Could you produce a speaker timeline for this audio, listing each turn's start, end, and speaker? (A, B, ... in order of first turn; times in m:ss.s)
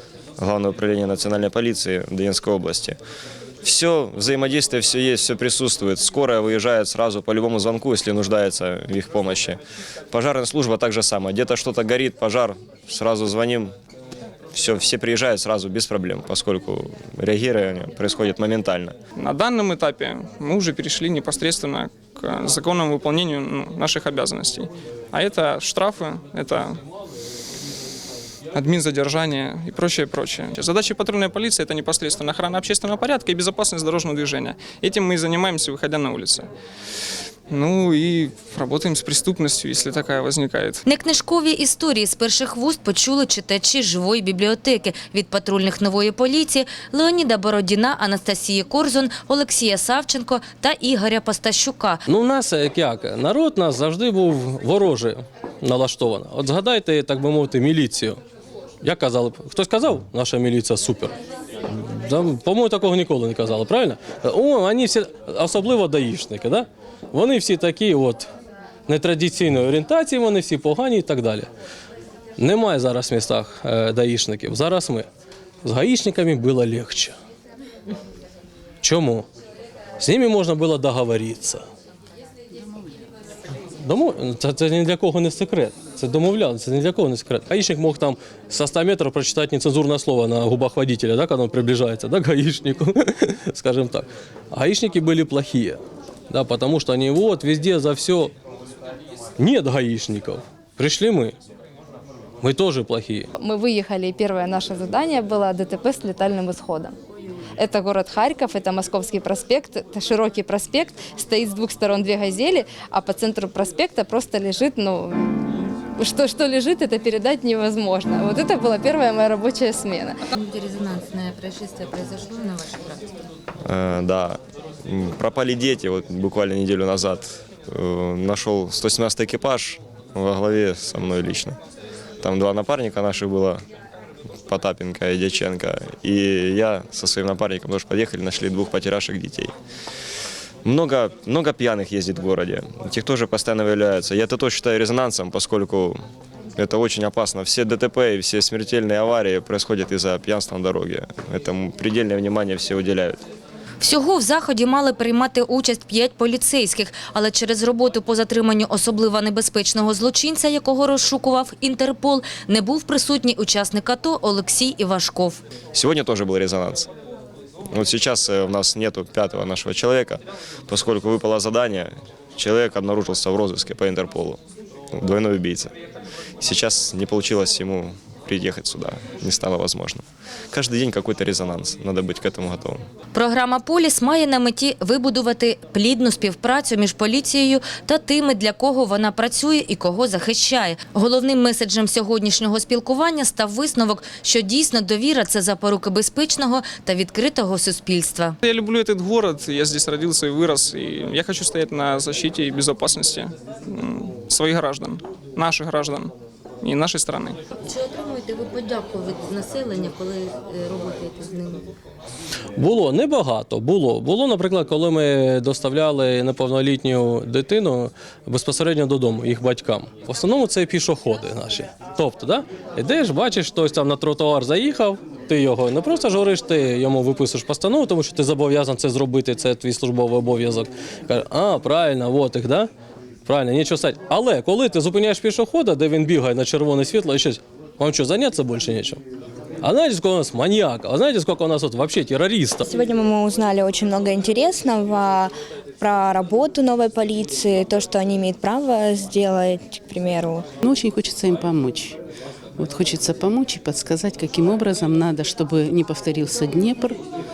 0:00.4-0:03.0 A
0:03.6-0:09.6 A
0:10.1-0:13.7 A
0:14.5-0:19.0 A
0:19.2-0:26.8 B
0:28.5-0:36.5 B
0:37.5-0:40.8 B
0:40.8-0:52.0 C
0:52.1-0:58.2 D
0:58.8-1:01.1 D
1:01.7-1:08.3 D
1:08.9-1:11.5 D
1:12.4-1:15.1 D
1:15.6-1:17.2 D
1:18.8-1:19.3 D
1:20.0-1:21.6 D
1:23.8-1:35.8 D
1:36.3-1:38.3 D
1:39.4-1:41.4 D
1:42.4-1:43.3 D
1:43.5-1:46.9 E
1:47.6-1:55.0 E
1:56.0-2:00.1 E
2:00.4-2:03.0 C
2:03.7-2:11.6 A
2:12.2-2:13.6 A
2:14.5-2:19.5 A
2:20.6-2:26.0 A
2:26.6-2:33.2 A
2:33.8-2:45.4 C
2:45.7-2:46.9 A
2:47.7-2:54.4 A
2:55.0-2:55.7 A
2:56.4-3:02.8 A
3:03.2-3:18.4 C
3:18.4-3:27.4 B
3:27.6-3:31.6 C
3:32.6-3:52.7 D
3:53.3-3:59.0 D
3:59.6-4:02.6 D
4:02.7-4:10.5 F
4:10.6-4:12.0 G
4:12.6-4:17.0 G